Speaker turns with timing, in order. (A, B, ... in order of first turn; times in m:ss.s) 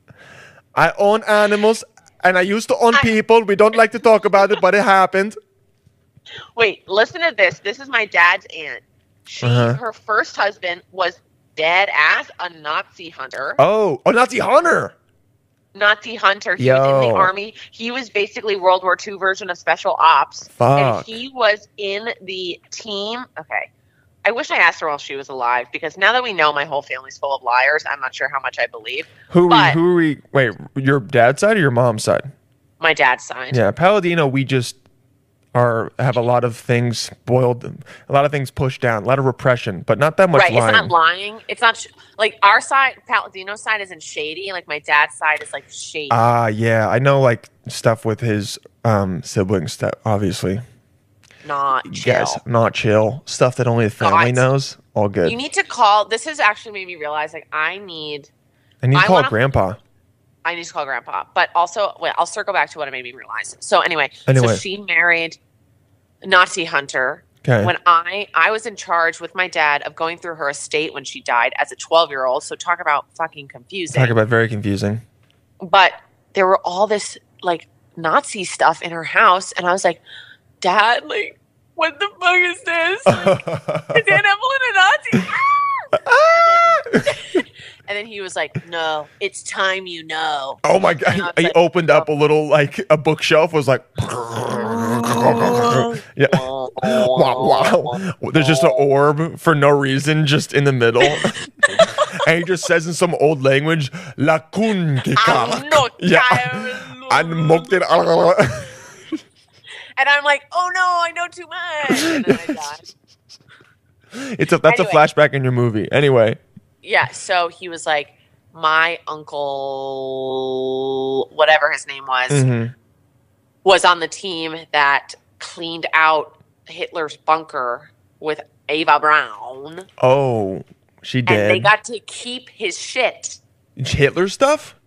0:00.7-0:05.4 A
0:06.6-0:13.6 B
0:09.4-0:09.8 A
0:13.6-0:15.0 A
0:15.8-0:23.7 B
0:16.6-0:17.3 A
0:20.5-0:21.1 A
0:24.2-0:29.8 B
0:29.3-0:32.3 A
0:32.8-0:33.6 B
0:33.5-0:34.8 A
0:35.5-0:40.9 A
0:40.3-0:46.3 B
0:46.1-0:50.6 A
0:51.4-0:52.4 B
0:51.9-0:55.4 A
0:54.0-0:54.5 B
0:55.2-0:58.3 B
0:58.8-0:59.8 A
0:59.0-0:59.4 B
1:00.4-1:05.4 B
1:04.3-1:04.6 A
1:06.2-1:14.2 B
1:07.4-1:07.7 A
1:13.9-1:15.0 A
1:15.6-1:20.0 B
1:20.6-1:32.1 B
1:23.1-1:24.2 A
1:26.0-1:27.4 A
1:30.6-1:48.8 A
1:34.7-1:38.8 B
1:41.0-1:42.2 B
1:45.2-1:48.0 B
1:50.0-1:52.9 B
1:51.9-1:52.9 A
1:54.1-1:56.4 A
1:54.6-1:55.0 B
1:56.8-2:02.5 B
2:02.3-2:02.7 A
2:03.6-2:09.9 B
2:10.0-2:11.7 A
2:11.3-2:13.4 B
2:13.8-2:14.8 A